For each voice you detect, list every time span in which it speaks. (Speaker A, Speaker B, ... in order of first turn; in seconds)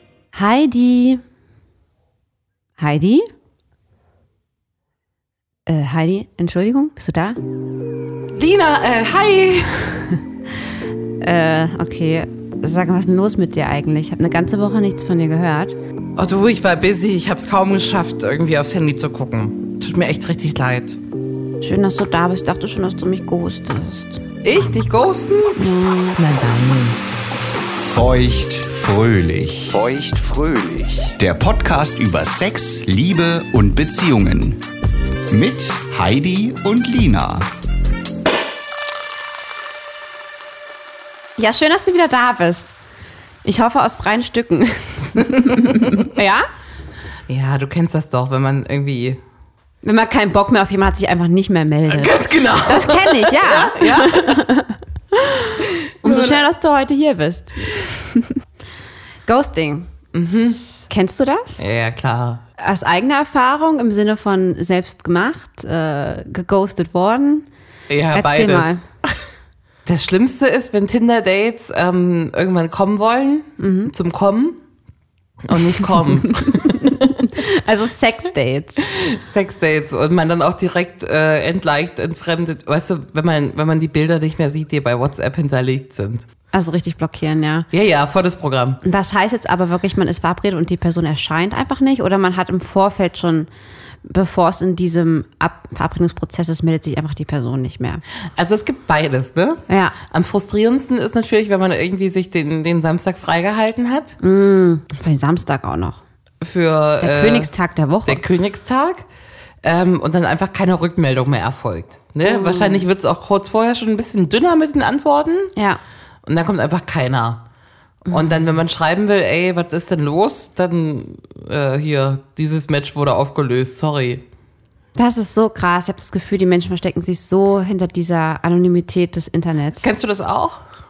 Speaker A: 0.3-1.2, 2.8-3.2, 5.7-7.4, 11.2-15.8, 21.6-24.2, 25.6-26.1, 41.4-42.7, 43.4-46.5, 49.8-58.4, 59.2-59.9, 60.9-61.6, 62.6-67.5, 68.1-68.8, 73.6-73.9, 76.3-78.8, 86.5-87.7, 88.8-93.5, 94.0-98.0, 99.7-100.0, 104.2-106.0, 107.0-108.2, 112.2-112.8, 115.5-115.8, 118.1-118.3, 124.9-129.8
Speaker B: 8.3-10.1, 16.2-21.0, 24.4-27.0, 45.2-46.0, 47.3-49.2, 51.9-54.4, 56.0-56.4, 60.1-60.6, 61.6-62.4, 67.9-68.8, 69.8-74.6, 75.4-77.2, 78.8-86.3, 87.7-88.8, 98.3-104.2, 106.4-107.5, 108.0-109.0, 109.6-115.5, 116.2-117.4, 118.1-124.2, 129.8-130.6
Speaker C: 27.9-34.6, 35.3-37.5